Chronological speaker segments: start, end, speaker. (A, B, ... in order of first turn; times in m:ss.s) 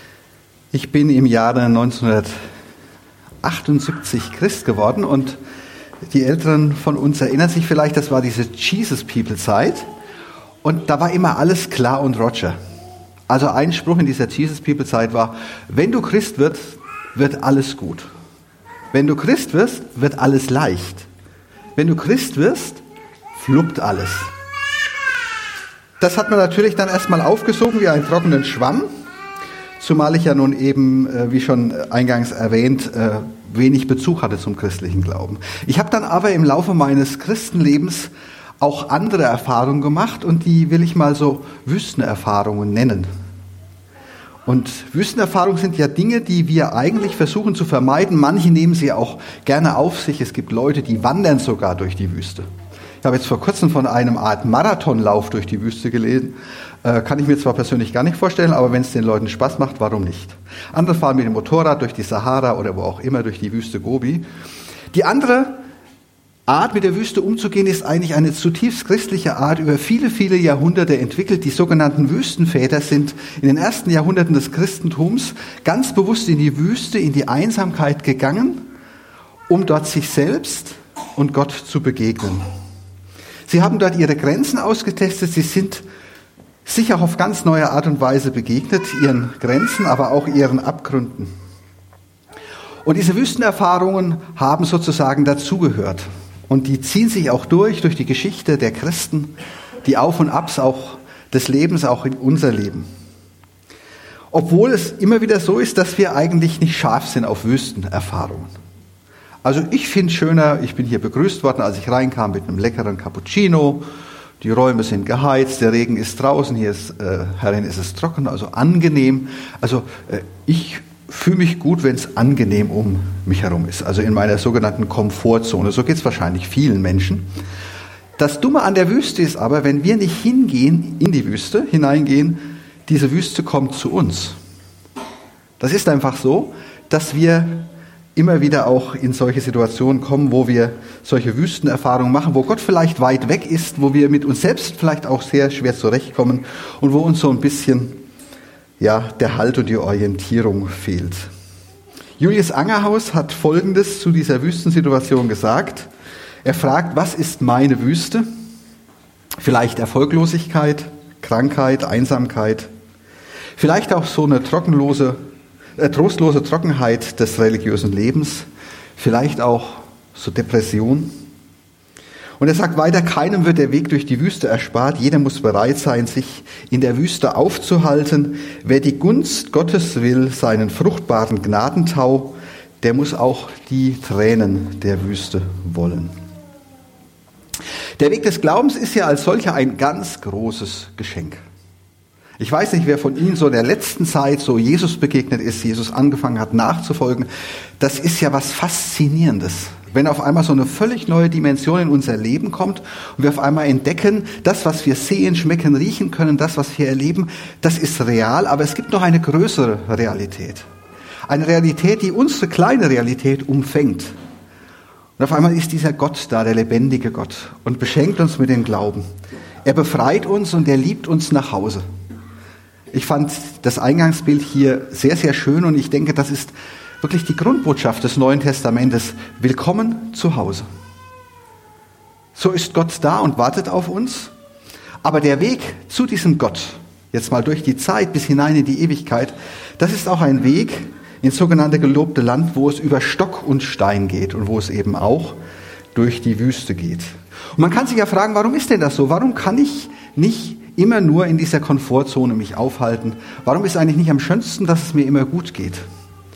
0:00.7-0:02.3 A
0:03.4-0:05.4 A
0:06.1-0:09.9 A
0:10.6-0:12.6 A
0:13.3-0:18.1 A
0:18.9-0:21.1 A
0:21.8-0:22.8 A
0:23.4-0:24.3 A
0:26.0-0:28.9 A
0:29.8-0:43.1 A
0:44.4-0:52.4 A
0:53.0-1:04.2 A
1:04.9-1:05.6 A
1:06.5-1:18.7 A
1:19.5-1:22.4 A
1:23.5-1:25.8 A
1:26.6-1:31.3 A
1:32.8-1:39.3 A
1:39.8-1:42.9 A
1:44.3-1:48.5 A
1:49.4-1:53.8 A
1:54.4-2:07.3 A
2:08.2-2:14.4 A
2:15.6-2:28.0 A
2:28.8-2:31.3 A
2:32.2-2:35.9 A
2:36.4-2:38.3 A
2:39.4-2:42.7 A
2:43.6-2:45.2 A
2:45.8-2:51.1 A
2:52.4-3:06.1 A
3:08.0-3:11.4 A
3:12.4-3:17.3 A
3:17.8-3:30.6 A
3:31.3-3:34.1 A
3:35.2-3:39.0 A
3:39.6-3:41.8 A
3:42.9-3:50.6 A
3:52.4-3:54.3 A
3:55.0-4:05.4 A
4:05.9-4:15.8 A